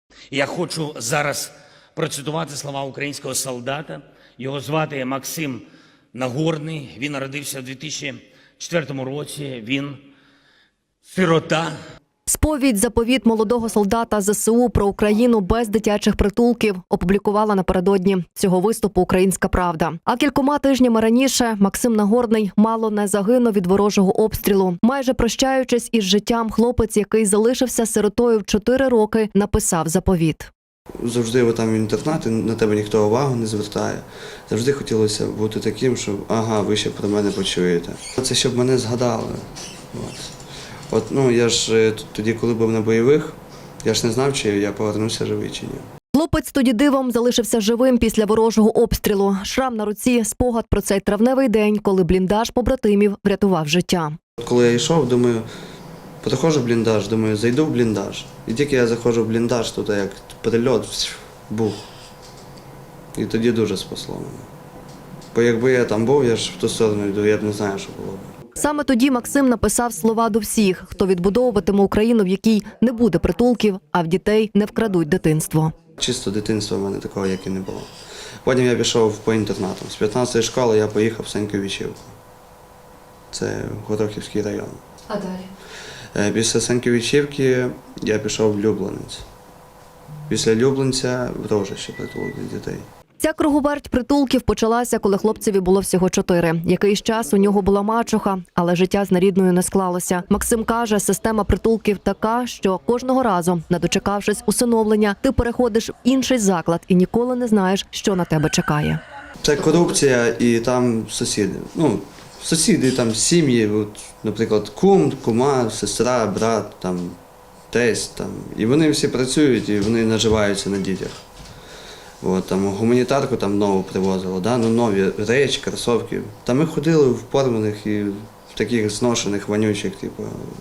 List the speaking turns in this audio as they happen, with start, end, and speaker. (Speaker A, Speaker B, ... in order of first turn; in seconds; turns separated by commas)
Speaker A: 0.3-10.0, Speaker A: 11.0-11.8, Speaker B: 12.3-30.5, Speaker C: 31.0-40.3, Speaker C: 40.9-45.8, Speaker B: 46.1-54.1, Speaker C: 54.4-55.5, Speaker C: 56.2-61.9, Speaker C: 63.1-64.5, Speaker C: 65.3-68.3, Speaker B: 68.6-75.7, Speaker C: 76.0-77.9, Speaker C: 78.4-82.1, Speaker C: 83.3-84.8, Speaker B: 85.1-85.5, Speaker C: 86.1-89.2, Speaker C: 90.3-92.9, Speaker B: 93.2-109.0, Speaker C: 109.4-117.2, Speaker C: 117.7-121.2, Speaker C: 122.2-130.4